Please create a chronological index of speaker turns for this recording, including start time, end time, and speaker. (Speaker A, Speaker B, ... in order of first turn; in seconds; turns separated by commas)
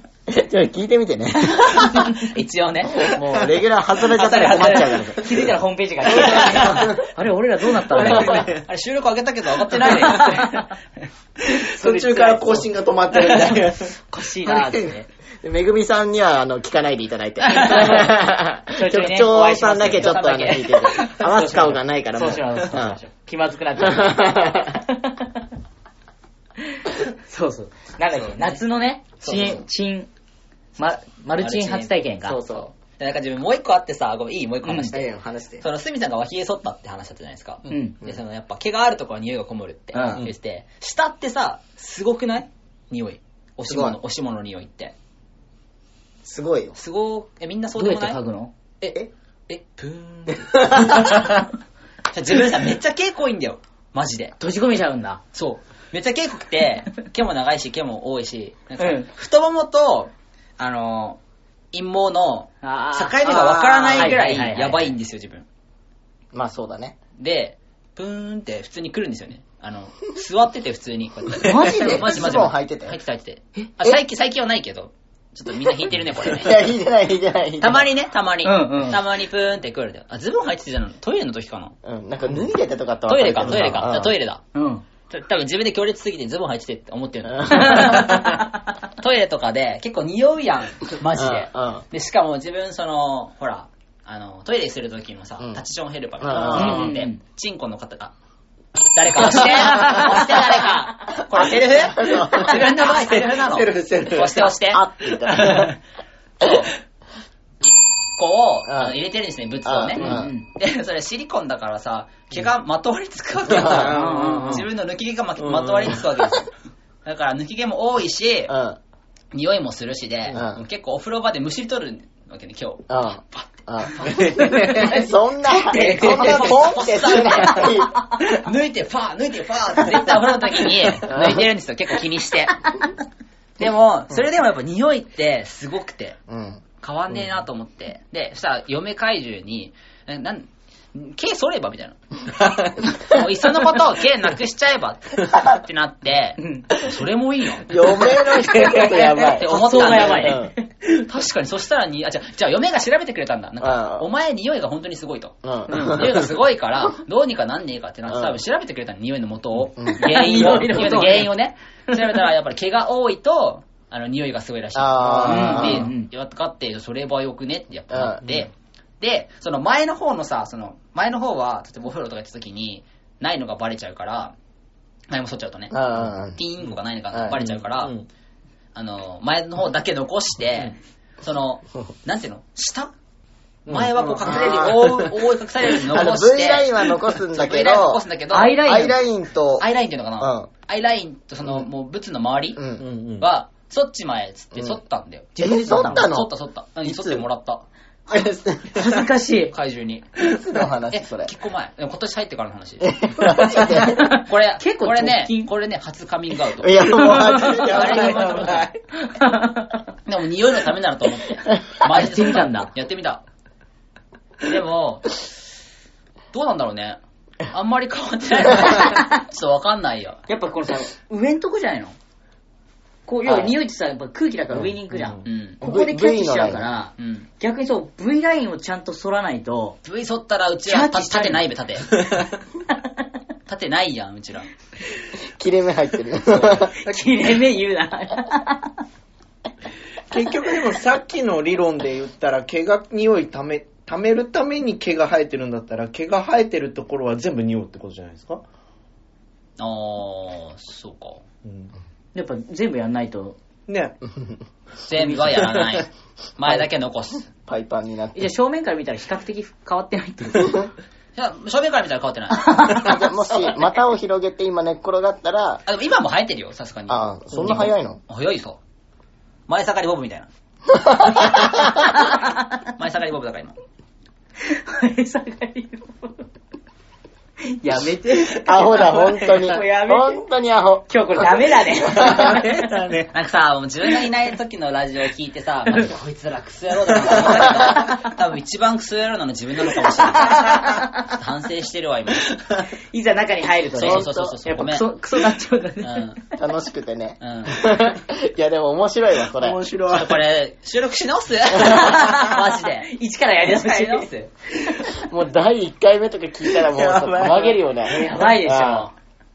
Speaker A: 0.3-2.1, Speaker B: 1.6-3.1, Speaker A: 2.9-5.4, Speaker B: 4.1-5.0, Speaker C: 4.3-8.5, Speaker A: 6.1-7.0, Speaker B: 6.6-6.8, Speaker B: 7.9-10.7, Speaker D: 8.0-8.6, Speaker C: 9.8-10.7, Speaker D: 11.5-13.9, Speaker C: 11.7-12.7, Speaker C: 13.2-13.5, Speaker C: 14.0-15.1, Speaker A: 15.4-23.0, Speaker C: 17.6-18.1, Speaker C: 18.7-25.4, Speaker A: 23.8-24.8, Speaker C: 26.7-30.1, Speaker B: 28.1-28.6, Speaker B: 29.2-29.6, Speaker B: 30.8-45.0, Speaker C: 30.8-32.4, Speaker A: 32.2-32.7, Speaker C: 34.6-34.9, Speaker A: 34.9-35.6, Speaker C: 37.7-38.0, Speaker C: 39.9-40.2, Speaker A: 43.6-44.0, Speaker A: 46.2-46.8, Speaker B: 46.8-48.2, Speaker C: 47.8-48.5, Speaker B: 48.8-51.5, Speaker A: 50.3-51.3, Speaker B: 52.1-54.4, Speaker C: 54.4-55.2, Speaker B: 55.3-61.2, Speaker C: 58.8-59.1, Speaker B: 61.7-65.5, Speaker C: 62.6-64.9, Speaker D: 63.3-64.1, Speaker A: 66.3-67.0, Speaker B: 67.2-76.7, Speaker A: 71.4-73.0, Speaker C: 71.4-72.1, Speaker A: 76.2-77.9, Speaker B: 77.6-81.8, Speaker C: 78.4-79.0, Speaker A: 81.8-84.1, Speaker B: 83.1-84.4, Speaker C: 84.5-84.8, Speaker B: 85.1-98.1, Speaker A: 87.5-88.1, Speaker C: 87.6-88.2, Speaker A: 91.1-91.8, Speaker A: 96.2-97.0, Speaker C: 96.5-97.2, Speaker B: 98.9-105.7, Speaker A: 99.4-100.2, Speaker C: 99.6-101.1, Speaker A: 101.1-102.7, Speaker D: 102.4-104.5, Speaker A: 104.2-105.8, Speaker B: 106.4-106.7, Speaker B: 108.2-116.5, Speaker A: 108.7-109.0, Speaker A: 109.6-110.3, Speaker C: 110.0-110.5, Speaker A: 113.5-114.6, Speaker C: 113.8-114.7, Speaker D: 113.9-114.6, Speaker D: 115.4-116.0, Speaker B: 117.0-118.5, Speaker A: 118.5-118.8, Speaker B: 119.3-132.9, Speaker A: 120.3-120.6, Speaker A: 122.9-128.0, Speaker D: 124.1-125.0, Speaker D: 125.8-126.6, Speaker A: 131.0-131.5, Speaker B: 133.6-136.2, Speaker A: 136.3-136.6, Speaker B: 136.8-142.0, Speaker B: 142.8-174.3, Speaker C: 146.4-146.7, Speaker A: 147.7-150.5, Speaker D: 147.7-149.3, Speaker C: 149.5-150.6, Speaker A: 153.6-154.1, Speaker A: 155.4-156.3, Speaker A: 158.1-158.4, Speaker A: 159.8-160.7, Speaker C: 159.9-161.3, Speaker A: 164.8-165.9, Speaker D: 165.0-165.7, Speaker C: 165.3-166.1, Speaker A: 167.9-168.2, Speaker B: 175.1-177.9, Speaker A: 175.7-176.4, Speaker A: 177.1-177.4, Speaker D: 177.4-178.1, Speaker B: 178.8-182.9, Speaker B: 183.7-188.8, Speaker D: 183.7-185.0, Speaker A: 184.2-185.1, Speaker A: 185.8-188.0, Speaker C: 188.3-189.0, Speaker A: 188.6-189.7, Speaker B: 189.6-192.6, Speaker A: 190.2-190.5, Speaker A: 192.6-192.8, Speaker D: 192.8-193.3, Speaker B: 193.2-197.6, Speaker C: 195.4-196.1, Speaker A: 195.4-196.3, Speaker A: 198.1-199.0, Speaker C: 198.7-199.5, Speaker B: 199.5-200.1, Speaker A: 200.2-201.3, Speaker B: 200.9-203.0, Speaker A: 202.8-204.1, Speaker B: 203.6-208.7, Speaker C: 203.7-205.5, Speaker A: 206.6-208.5, Speaker D: 207.0-208.7, Speaker C: 207.2-207.5, Speaker C: 209.0-209.8, Speaker B: 210.1-213.2, Speaker C: 211.8-212.7, Speaker B: 214.4-215.3, Speaker B: 216.3-220.2, Speaker C: 220.3-222.0, Speaker C: 223.1-229.8, Speaker A: 223.2-223.5, Speaker D: 224.9-225.2, Speaker B: 225.2-225.6, Speaker A: 225.6-226.7, Speaker B: 227.0-227.3, Speaker B: 229.8-232.1, Speaker C: 230.7-231.5, Speaker B: 233.5-234.5, Speaker A: 235.4-236.7, Speaker D: 236.4-237.1, Speaker C: 236.8-238.7, Speaker D: 240.1-248.4, Speaker B: 249.6-251.2, Speaker D: 251.4-251.7, Speaker C: 252.1-253.4, Speaker D: 253.7-254.0, Speaker B: 254.8-257.3, Speaker D: 255.2-255.7, Speaker A: 257.4-258.3, Speaker C: 258.1-260.7, Speaker B: 261.1-262.9, Speaker C: 262.3-263.1, Speaker A: 262.8-265.6, Speaker B: 265.7-268.6, Speaker A: 266.9-268.0, Speaker B: 269.5-270.3, Speaker A: 270.7-271.7, Speaker B: 271.4-273.5, Speaker C: 272.0-272.3, Speaker C: 274.4-276.2, Speaker C: 277.4-280.2, Speaker A: 278.3-282.3, Speaker D: 278.9-279.4, Speaker C: 280.9-282.7, Speaker D: 281.9-283.1, Speaker B: 283.1-292.4, Speaker D: 286.9-287.7, Speaker C: 290.2-290.8, Speaker C: 292.9-296.1, Speaker B: 293.8-294.8, Speaker A: 293.8-294.4, Speaker B: 295.8-296.2, Speaker A: 296.4-299.6, Speaker B: 297.2-297.8, Speaker D: 299.4-300.2, Speaker B: 299.9-302.9, Speaker C: 301.6-304.3, Speaker B: 303.5-304.2, Speaker A: 304.9-308.9, Speaker D: 306.5-307.6, Speaker C: 307.9-308.9